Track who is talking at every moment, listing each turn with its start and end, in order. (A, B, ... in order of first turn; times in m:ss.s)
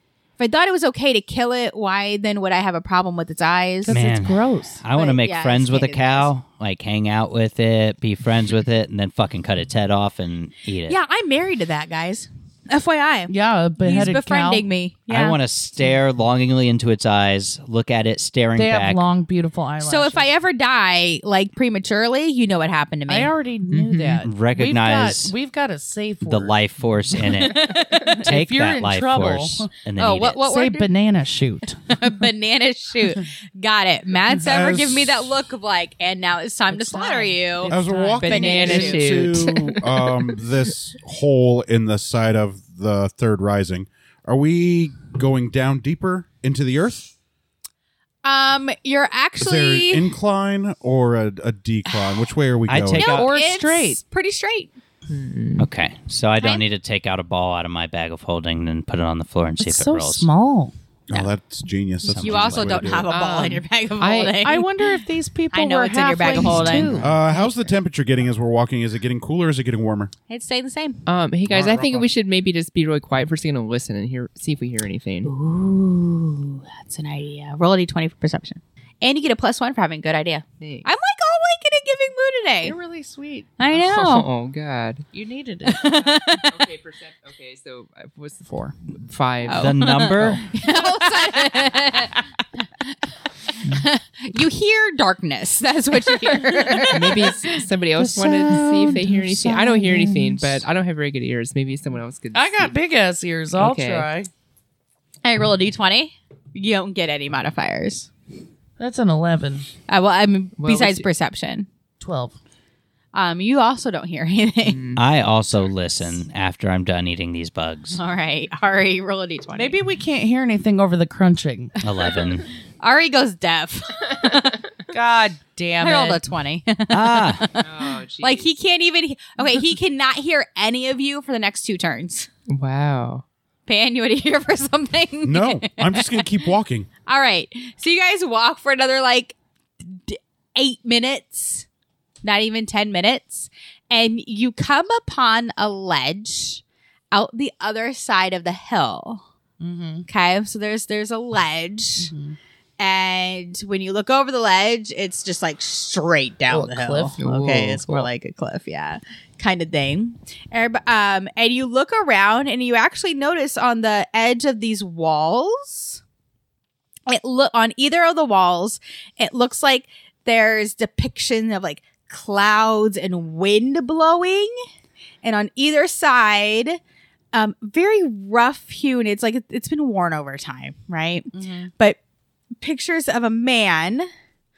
0:00.4-0:04.0 A
0:03.8-0:04.8 B
0:03.9-0:11.0 C
0:04.9-0:06.3 A
0:10.9-0:15.4 A
0:13.3-0:14.6 B
0:15.1-0:19.0 C
0:18.6-0:20.3 B
0:19.8-0:23.3 A
0:23.1-0:26.6 B
0:23.7-0:24.2 D
0:24.2-0:25.4 C
0:26.2-0:30.4 C
0:27.2-0:29.7 B
0:27.5-0:28.2 A
0:30.0-0:30.9 A
0:30.4-0:31.8 B
0:31.9-0:39.4 A
0:34.4-0:35.4 E
0:36.7-0:38.9 B
0:37.7-0:47.1 E
0:38.2-0:40.2 D
0:48.2-0:50.1 A
0:49.4-0:53.2 E
0:52.7-0:53.3 C
0:52.9-0:54.7 A
0:53.1-0:54.0 B
0:55.1-0:55.7 D
0:55.6-1:00.3 C
0:59.6-1:00.7 B
1:01.1-1:03.1 E
1:02.1-1:03.0 C
1:02.2-1:04.7 A
1:03.1-1:04.4 D
1:04.4-1:07.6 B
1:05.5-1:07.2 A
1:07.0-1:10.1 E
1:10.3-1:11.0 A
1:11.1-1:15.3 D
1:11.5-1:12.1 E
1:15.2-1:22.8 A
1:20.6-1:20.9 D
1:22.6-1:23.6 B
1:23.6-1:24.3 A
1:23.7-1:25.1 D
1:25.1-1:25.8 B
1:25.6-1:26.6 A
1:25.8-1:30.4 D
1:28.5-1:28.7 B
1:29.4-1:32.2 A
1:29.6-1:30.4 C
1:33.6-1:37.6 A
1:36.8-1:42.7 D
1:38.0-1:40.6 B
1:42.3-1:44.3 B
1:43.6-1:44.1 D
1:45.2-1:48.1 A
1:48.8-1:49.7 B
1:49.9-1:51.7 A
1:50.6-1:51.1 D
1:52.0-1:52.4 B
1:53.1-1:54.8 A
1:54.6-1:55.0 D
1:55.0-1:58.0 C
1:58.0-1:59.8 A
1:59.6-2:01.7 B
2:01.8-2:02.5 C
2:02.8-2:04.6 A
2:04.9-2:06.2 B
2:05.8-2:12.3 A
2:06.9-2:07.5 C
2:07.6-2:08.5 D
2:12.5-2:13.2 D
2:13.7-2:16.4 A
2:15.2-2:16.9 E
2:17.1-2:21.7 A
2:22.2-2:29.2 A
2:29.6-2:30.1 B
2:30.1-2:32.1 A
2:32.0-2:32.4 B
2:32.8-2:46.0 A
2:36.5-2:37.2 B
2:37.2-2:38.1 D
2:47.1-2:54.5 A
2:55.2-2:56.8 A
2:57.3-3:02.0 A
3:01.3-3:01.7 B
3:02.6-3:04.1 A